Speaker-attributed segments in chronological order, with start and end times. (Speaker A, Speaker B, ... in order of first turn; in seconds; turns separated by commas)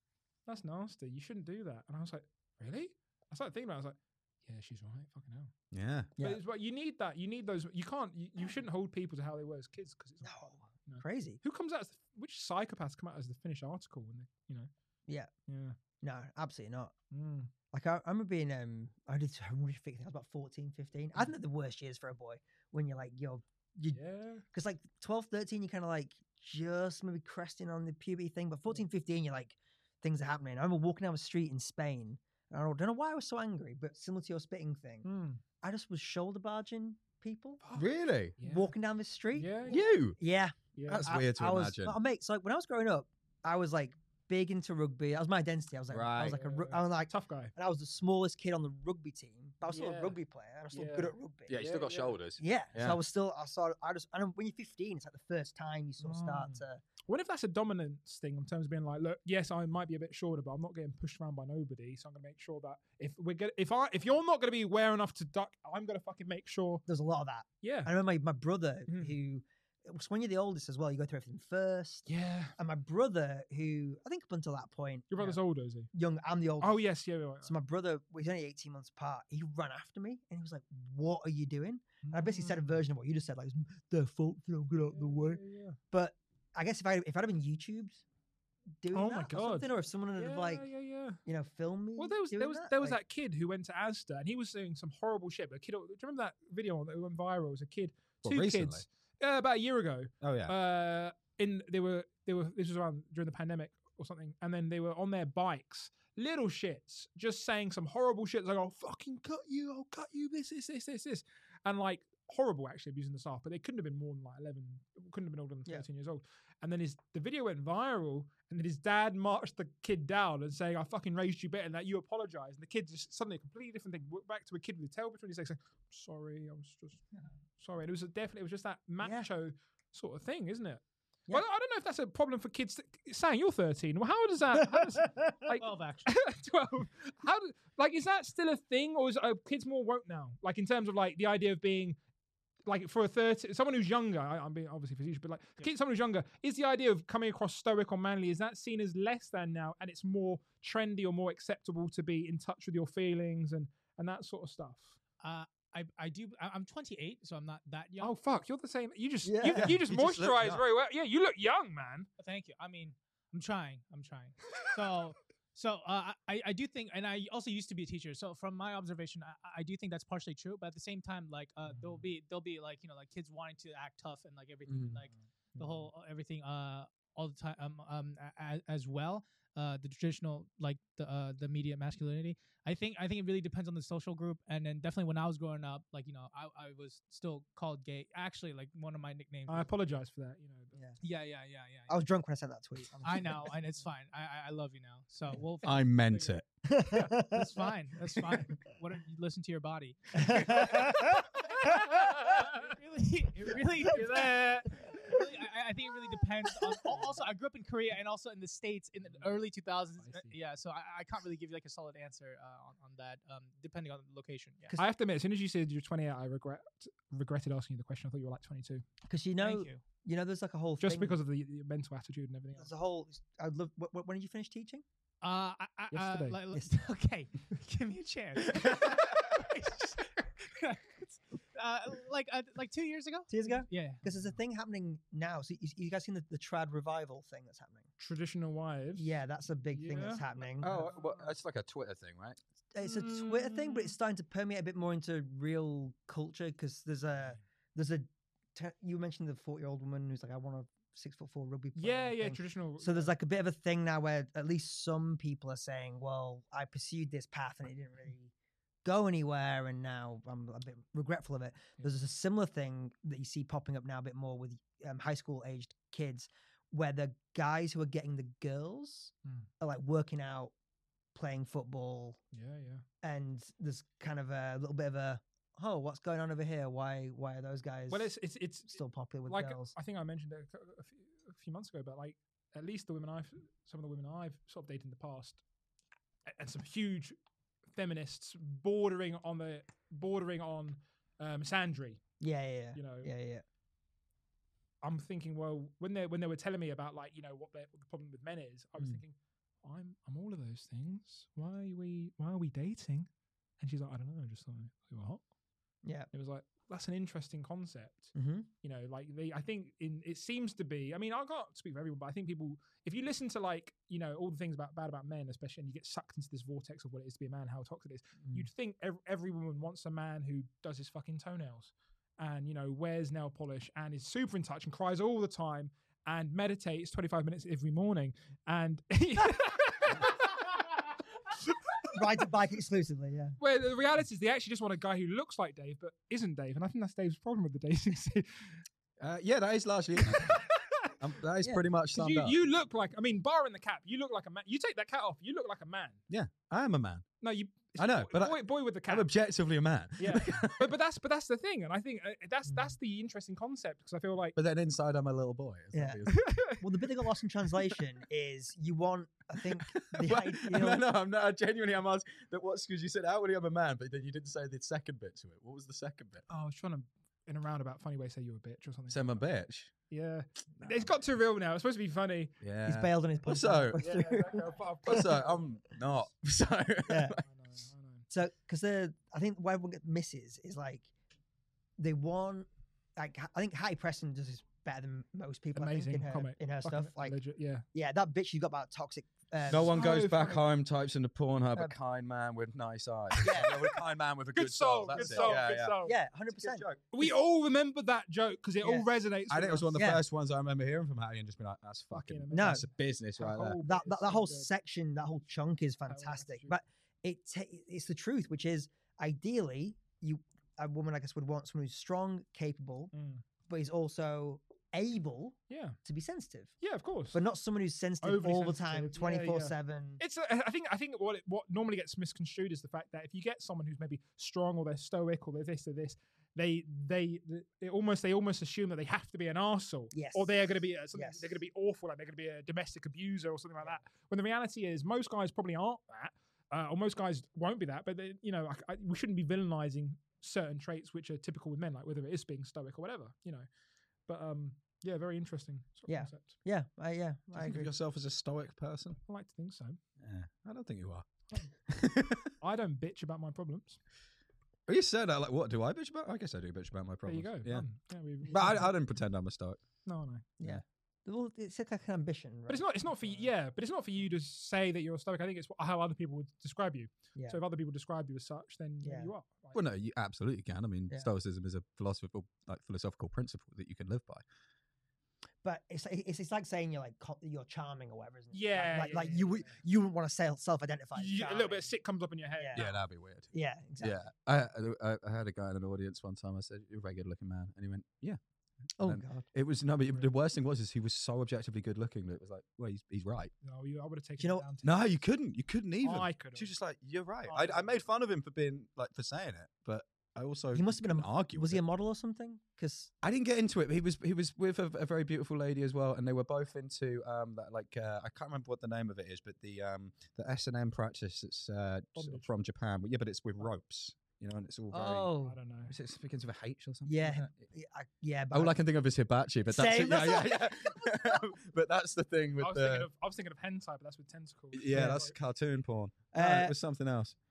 Speaker A: 0.5-5.5, Speaker B: 5.7-6.1, Speaker A: 6.2-14.7, Speaker C: 10.2-11.4, Speaker A: 15.5-15.8, Speaker C: 16.0-16.9, Speaker A: 17.1-17.5, Speaker C: 17.7-24.0, Speaker A: 23.9-24.4, Speaker C: 24.5-35.0, Speaker A: 35.0-35.4, Speaker C: 35.6-37.6, Speaker A: 37.6-38.7, Speaker B: 37.7-38.4, Speaker C: 38.4-51.5, Speaker A: 39.3-39.9, Speaker B: 39.7-40.2, Speaker A: 40.7-41.1, Speaker B: 40.9-42.0, Speaker B: 45.9-46.4, Speaker A: 46.3-47.5, Speaker A: 49.6-50.2, Speaker A: 50.7-52.1, Speaker B: 51.5-53.0, Speaker C: 52.4-56.8, Speaker A: 56.0-66.8, Speaker C: 66.9-75.4, Speaker A: 67.6-67.9, Speaker A: 68.9-69.1, Speaker A: 72.1-72.5, Speaker A: 75.1-75.9, Speaker C: 75.9-76.8, Speaker A: 76.6-77.5, Speaker C: 77.4-85.4, Speaker A: 82.0-82.7, Speaker A: 84.9-85.8, Speaker C: 85.9-88.0, Speaker C: 88.8-90.7, Speaker A: 88.9-91.2, Speaker C: 91.2-93.0, Speaker A: 92.0-127.0, Speaker B: 98.2-98.8, Speaker B: 100.2-100.5, Speaker A: 127.6-142.0, Speaker C: 129.0-129.3, Speaker C: 134.6-135.5, Speaker D: 135.6-136.1, Speaker A: 142.7-154.9, Speaker D: 155.2-158.1, Speaker A: 158.0-162.1, Speaker C: 159.2-159.8, Speaker B: 159.5-160.6, Speaker D: 162.2-189.7, Speaker B: 174.7-174.9, Speaker A: 175.5-175.9, Speaker A: 189.5-190.8, Speaker D: 191.0-192.0, Speaker C: 191.9-193.5, Speaker D: 193.0-196.4, Speaker B: 195.6-196.4, Speaker C: 196.6-198.6, Speaker D: 197.2-214.7, Speaker C: 200.1-201.8, Speaker A: 201.6-202.7, Speaker C: 203.9-204.2, Speaker A: 204.1-204.5, Speaker A: 210.0-210.3, Speaker C: 214.6-214.9, Speaker A: 214.8-218.8, Speaker C: 219.1-221.2, Speaker D: 219.4-219.8, Speaker A: 220.8-222.7, Speaker C: 222.6-224.8, Speaker D: 225.2-234.0, Speaker A: 225.9-226.4, Speaker C: 233.3-237.9, Speaker A: 238.0-239.1, Speaker C: 238.9-240.9, Speaker A: 239.7-241.3, Speaker B: 240.6-242.4, Speaker C: 242.7-258.3, Speaker A: 242.8-243.9, Speaker A: 251.8-253.1, Speaker C: 258.8-270.5, Speaker C: 271.1-272.2, Speaker A: 272.3-272.8, Speaker C: 273.0-278.1, Speaker A: 277.9-285.4, Speaker C: 278.7-279.7, Speaker A: 286.3-287.1, Speaker A: 287.7-292.0, Speaker C: 292.2-293.4, Speaker A: 292.7-293.1, Speaker A: 294.8-303.1, Speaker A: 303.6-305.2, Speaker C: 305.8-306.1, Speaker A: 306.1-330.6, Speaker C: 308.1-308.5, Speaker C: 331.9-333.4, Speaker A: 333.4-338.6, Speaker B: 339.0-342.4, Speaker A: 340.1-340.9, Speaker A: 341.9-346.0, Speaker B: 346.1-347.1, Speaker A: 347.2-349.1, Speaker B: 347.8-350.6, Speaker A: 350.0-354.4, Speaker C: 352.5-352.8, Speaker B: 354.4-356.3, Speaker C: 355.7-360.8, Speaker A: 356.1-356.6, Speaker B: 359.6-366.2, Speaker A: 366.3-369.2, Speaker B: 368.9-369.7, Speaker A: 369.9-372.3, Speaker B: 370.6-370.9, Speaker B: 372.4-373.8, Speaker C: 372.6-374.5, Speaker A: 373.8-375.4, Speaker B: 374.9-377.2, Speaker C: 376.9-377.2, Speaker A: 377.2-378.1, Speaker C: 378.1-380.9, Speaker C: 381.8-387.2, Speaker A: 385.5-387.6, Speaker C: 387.7-389.8, Speaker B: 389.5-395.8, Speaker A: 389.7-390.4, Speaker C: 393.2-393.5, Speaker A: 393.2-393.7, Speaker A: 394.3-395.9, Speaker C: 394.9-396.6, Speaker B: 396.3-396.9, Speaker A: 396.9-399.7, Speaker B: 399.3-403.6, Speaker C: 399.7-400.0, Speaker A: 401.9-404.5, Speaker C: 402.3-402.6, Speaker C: 403.6-412.9, Speaker A: 405.9-406.5, Speaker A: 412.9-413.2, Speaker C: 413.5-416.5, Speaker A: 415.5-415.8, Speaker A: 416.6-417.2, Speaker C: 417.1-420.0, Speaker A: 418.0-443.5, Speaker C: 429.9-430.4, Speaker C: 430.9-431.4, Speaker A: 444.1-446.4, Speaker C: 445.9-447.7, Speaker B: 447.3-449.0, Speaker A: 449.1-449.8, Speaker B: 450.0-452.3, Speaker A: 452.4-453.8, Speaker B: 454.7-457.7, Speaker A: 457.1-458.7, Speaker B: 458.3-459.6, Speaker A: 459.9-460.3, Speaker C: 460.4-463.2, Speaker A: 462.5-469.6, Speaker C: 468.8-469.1, Speaker B: 469.5-474.2, Speaker C: 475.4-481.7, Speaker A: 478.3-479.6, Speaker A: 480.9-482.8, Speaker C: 482.4-482.7, Speaker B: 482.5-488.2, Speaker C: 483.3-484.0, Speaker C: 488.8-489.2, Speaker B: 488.8-493.3, Speaker A: 493.4-495.0, Speaker C: 494.2-494.4, Speaker B: 494.6-501.6, Speaker A: 495.8-496.5, Speaker A: 497.3-497.7, Speaker C: 500.5-502.9, Speaker B: 503.0-515.1, Speaker A: 511.9-512.3, Speaker C: 514.7-515.4, Speaker A: 515.2-515.7, Speaker B: 515.7-517.5, Speaker C: 516.9-518.6, Speaker B: 518.3-522.9, Speaker C: 519.5-521.2, Speaker A: 522.4-525.1, Speaker B: 524.5-527.1, Speaker C: 524.7-525.0, Speaker C: 526.1-526.5